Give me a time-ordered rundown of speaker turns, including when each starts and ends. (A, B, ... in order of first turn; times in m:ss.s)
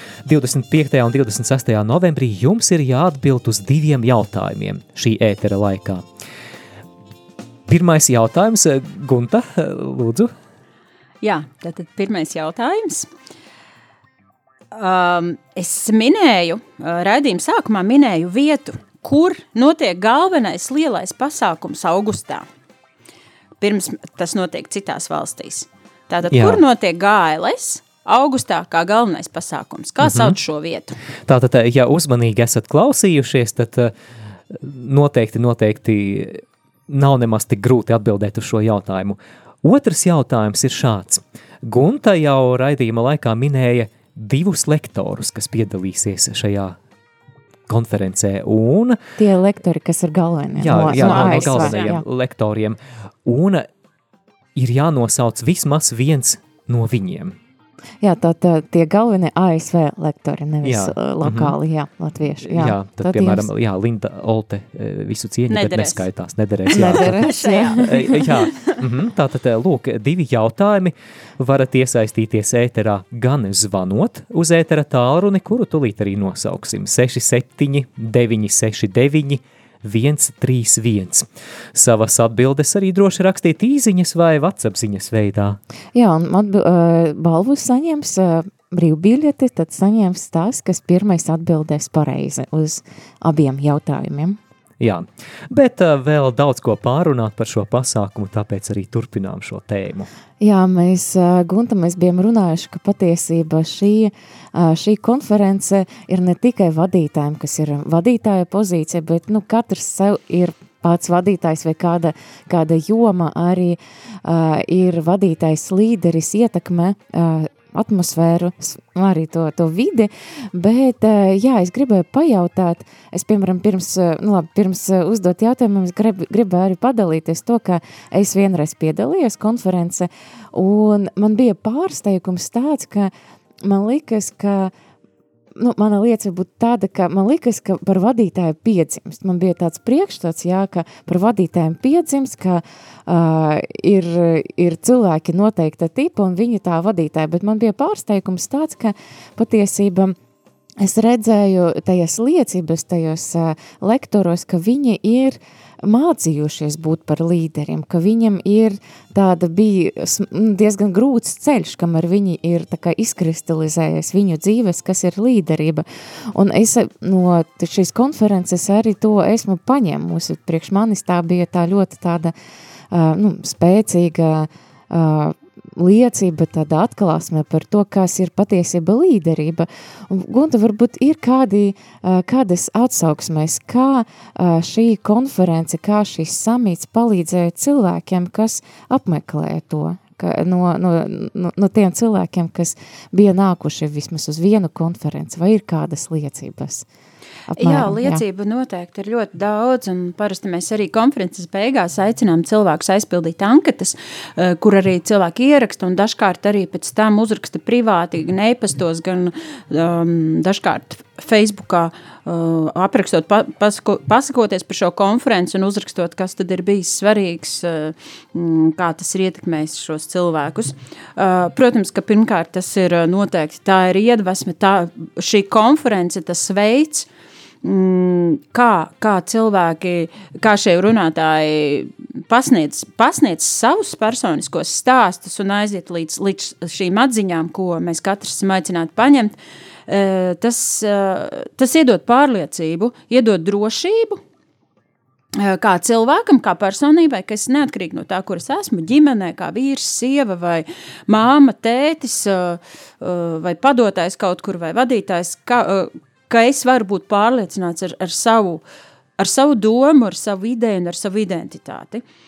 0:00.2-0:06.0 A
0:07.7-0:10.3 A
0:11.2-0:13.1 B
0:14.7-0:22.5 B
0:23.6-0:31.0 B
0:26.3-0:26.6 A
0:30.0-0:30.4 A
0:31.3-0:33.9 A
0:34.5-0:46.8 A
0:47.7-0:49.0 A
0:49.2-0:52.0 C
0:50.6-0:53.7 A
0:50.9-0:51.9 B
0:54.6-0:57.4 A
0:58.0-1:03.5 C
1:00.6-1:01.6 A
1:02.4-1:07.3 A
1:05.5-1:06.0 B
1:06.7-1:08.3 C
1:06.8-1:08.8 B
1:07.8-1:25.6 A
1:25.9-1:34.4 C
1:34.8-1:40.1 A
1:40.4-2:13.1 C
2:13.6-2:14.7 C
2:15.6-2:30.2 C
2:30.8-2:52.3 C
2:52.9-3:16.9 C
3:17.5-3:18.2 C
3:17.6-3:47.1 B
3:47.6-3:59.4 B
3:59.9-4:04.2 B
4:05.4-4:18.6 B
4:19.2-4:22.0 B